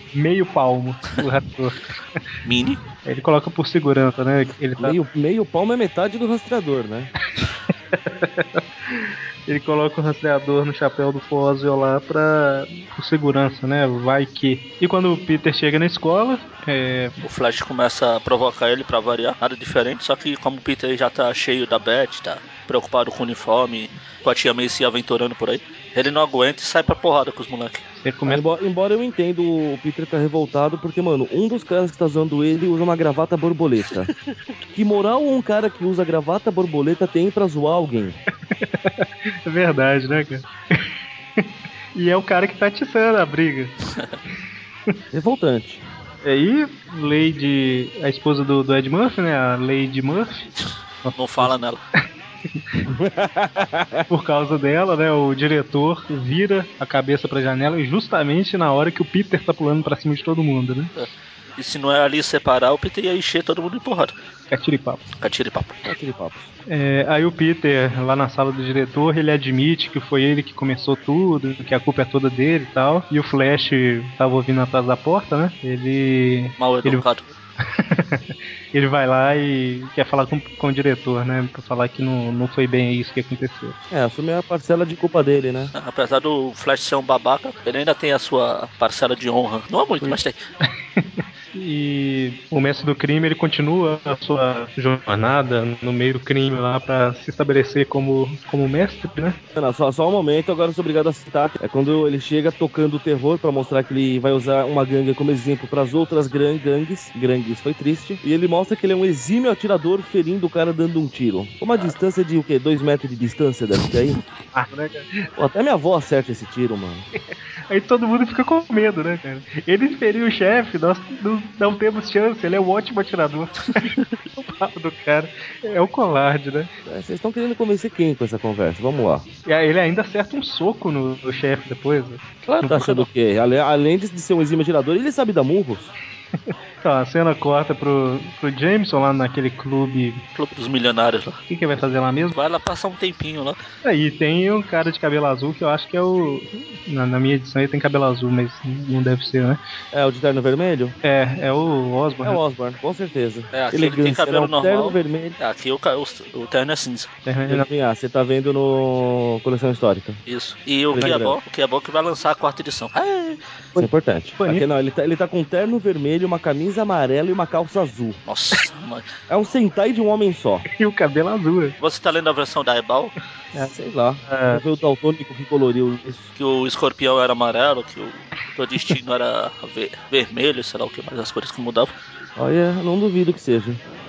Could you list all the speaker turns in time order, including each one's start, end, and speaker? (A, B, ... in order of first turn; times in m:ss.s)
0:00.1-0:02.2 A
0:02.4-0:02.8 B
0:03.0-0:05.0 A
0:04.8-0:07.1 C
0:08.0-0:17.2 A
0:17.2-0:27.8 B
0:28.0-0:28.4 A
0:28.3-0:34.1 C
0:34.7-0:38.2 C
0:38.6-0:40.5 A
0:41.9-0:43.7 A
0:45.1-0:45.8 C
0:46.2-0:51.5 A
0:51.1-0:51.8 B
0:52.9-0:54.0 C
0:54.1-1:00.9 A
1:01.0-1:04.1 B
1:04.5-1:05.0 A
1:05.2-1:05.9 B
1:05.8-1:06.5 C
1:06.7-1:17.0 A
1:16.6-1:17.3 B
1:17.8-1:23.7 A
1:23.9-1:25.7 C
1:25.7-1:30.4 B
1:31.0-1:39.4 A
1:39.5-1:54.2 C
1:54.5-1:55.3 A
1:55.4-1:57.0 C
1:57.1-2:06.7 A
2:06.8-2:09.2 C
2:09.4-2:13.1 A
2:12.5-2:15.9 C
2:16.8-2:20.2 A
2:20.3-2:21.4 B
2:21.5-2:22.4 A
2:22.3-2:23.6 B
2:23.8-2:29.6 A
2:29.9-2:31.0 C
2:31.0-2:32.4 A
2:32.2-2:35.4 C
2:33.5-2:37.1 B
2:37.2-2:37.7 A
2:37.5-2:40.2 C
2:40.3-2:43.4 B
2:40.9-2:41.4 C
2:43.8-2:48.2 C
2:44.4-2:44.6 A
2:48.2-2:49.1 B
2:49.3-2:50.6 C
2:50.7-2:51.8 A
2:51.8-2:53.1 B
2:53.6-2:56.3 C
2:54.2-2:54.6 A
2:56.4-3:01.9 B
3:02.4-3:03.8 C